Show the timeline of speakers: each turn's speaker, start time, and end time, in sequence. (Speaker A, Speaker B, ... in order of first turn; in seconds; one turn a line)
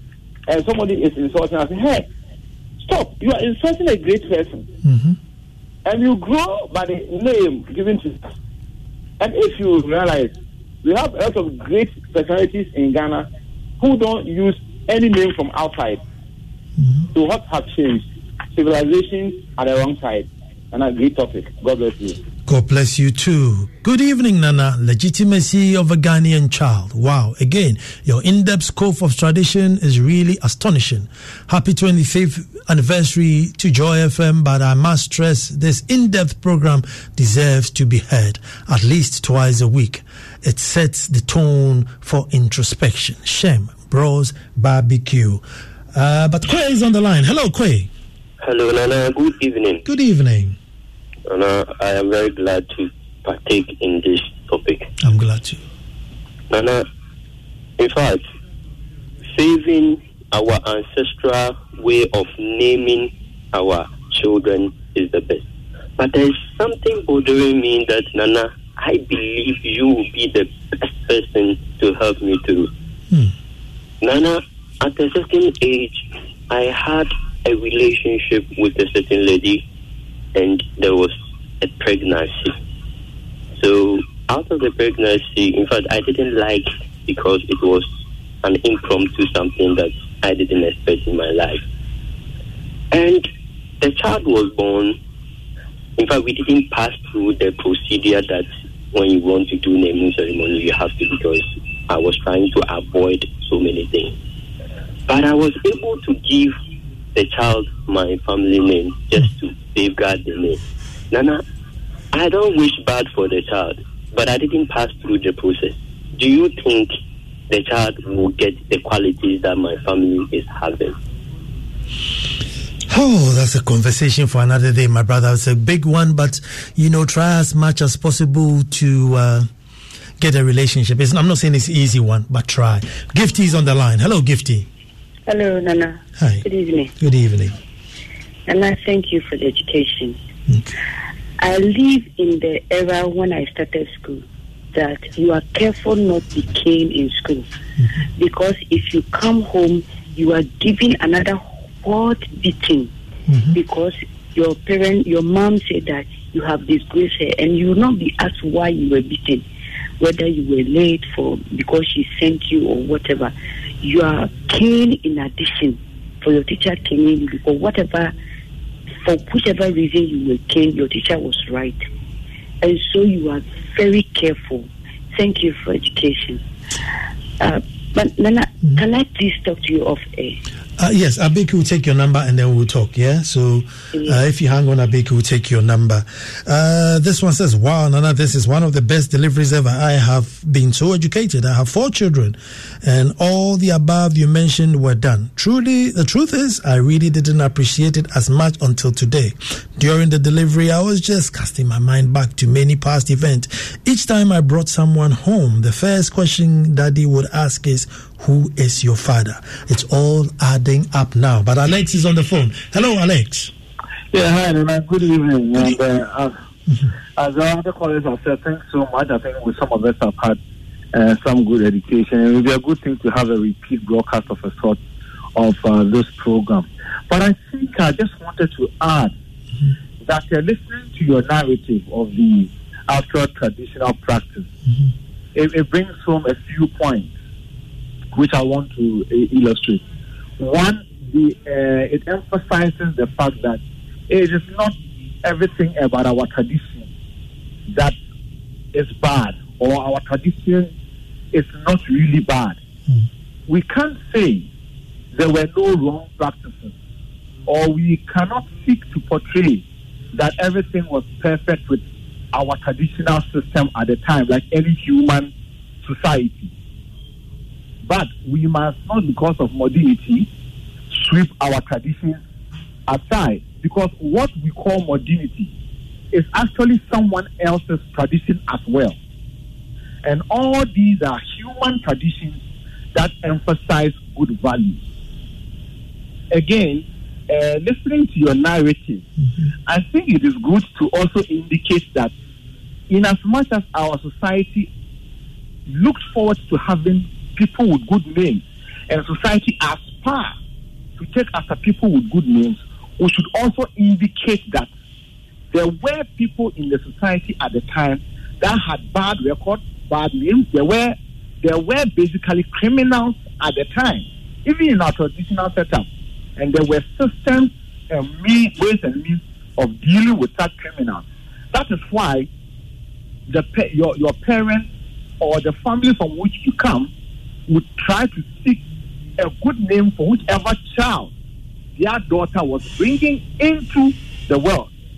Speaker A: 0.5-2.1
Speaker A: 2.8-4.7
Speaker B: 4.8-5.2
Speaker A: 5.8-8.3
Speaker A: 9.2-13.3
Speaker A: 13.8-16.0
Speaker B: 16.8-17.0
Speaker A: 17.1-22.2
Speaker B: 22.4-45.4
Speaker B: 45.9-47.9
Speaker C: 48.4-49.8
Speaker B: 49.8-50.6
Speaker C: 51.3-54.9
Speaker B: 55.0-55.6
Speaker C: 56.5-56.9
Speaker C: 57.8-58.2
Speaker C: 59.3-65.4
Speaker C: 66.0-72.7
Speaker C: 74.0-79.6
Speaker C: 80.3-82.5
Speaker C: 83.6-87.9
Speaker C: 88.4-91.6
Speaker C: 92.9-93.3
Speaker C: 93.8-95.0
Speaker C: 96.0-104.2
Speaker C: 105.1-106.5
Speaker C: 107.1-110.6
Speaker C: 111.1-111.4
Speaker C: 112.1-117.0
Speaker C: 117.5-121.0
Speaker B: 122.9-129.5
Speaker B: 130.2-134.7
Speaker D: 135.3-136.9
Speaker B: 136.2-136.4
Speaker B: 137.0-137.6
Speaker D: 138.5-140.2
Speaker B: 140.5-140.8
Speaker D: 141.4-147.5
Speaker D: 148.2-152.9
Speaker B: 153.3-153.6
Speaker D: 153.5-159.4
Speaker D: 160.0-168.1
Speaker D: 169.0-171.8
Speaker D: 172.6-176.4
Speaker D: 177.4-180.4
Speaker B: 180.8-213.5
Speaker E: 214.1-216.3
Speaker E: 217.2-220.4
Speaker E: 220.9-224.8
Speaker E: 225.3-229.1
Speaker E: 230.0-234.5
Speaker E: 235.3-237.1
Speaker E: 238.1-239.8
Speaker E: 240.4-246.9
Speaker E: 248.7-250.7
Speaker E: 251.3-252.6
Speaker E: 253.5-254.5
Speaker E: 255.1-256.7
Speaker E: 257.5-265.3
Speaker E: 265.8-266.5
Speaker E: 267.8-270.3
Speaker E: 270.9-272.2
Speaker E: 272.9-275.5
Speaker E: 276.1-278.9
Speaker E: 280.0-282.4
Speaker E: 282.9-284.8
Speaker E: 286.3-289.0
Speaker E: 289.7-292.1
Speaker E: 292.9-294.7
Speaker E: 295.7-300.3
Speaker E: 301.0-304.7
Speaker E: 305.5-322.3
Speaker E: 323.3-324.7
Speaker E: 325.2-326.9
Speaker E: 327.5-328.6
Speaker E: 329.2-331.1
Speaker E: 331.8-334.7